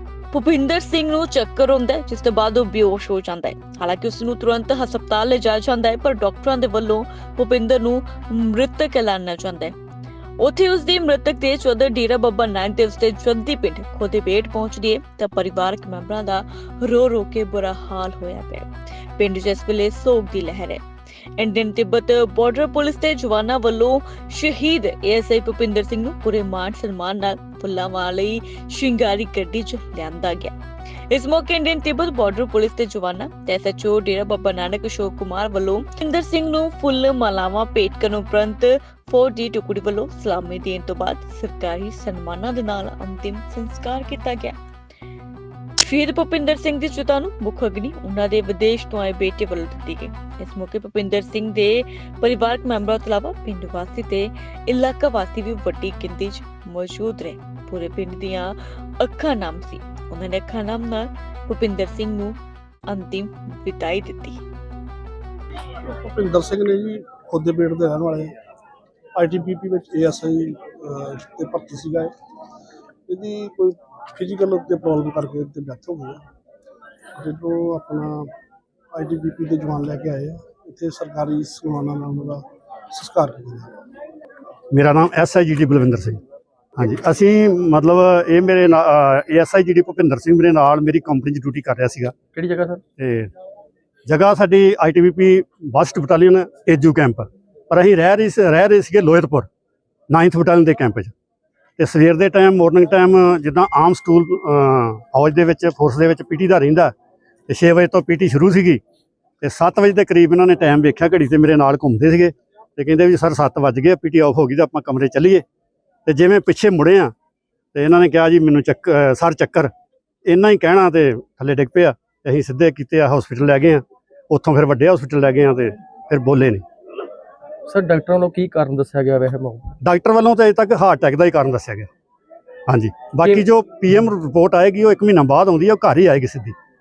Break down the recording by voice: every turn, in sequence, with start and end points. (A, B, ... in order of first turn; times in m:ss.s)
0:00.3-0:09.7 A
0:10.4-0:20.8 A
0:21.4-0:30.5 A
0:31.1-0:44.5 A
0:45.8-1:02.4 A
1:02.9-1:04.4 A
1:05.8-1:08.3 B
1:09.2-1:12.1 B
1:13.1-1:16.2 B
1:17.2-1:18.3 B
1:18.9-1:23.7 B
1:24.7-1:26.2 C
1:26.8-1:32.1 C
1:32.3-1:32.8 D
1:33.0-1:33.3 C
1:34.0-1:39.5 C
1:40.1-1:41.1 C
1:41.8-1:46.9 C
1:47.5-1:48.8 C
1:49.4-1:55.4 C
1:56.0-1:57.1 C
1:57.7-1:59.7 C
2:00.2-2:06.6 C
2:07.6-2:09.8 D
2:09.8-2:11.9 C
2:12.7-2:16.5 C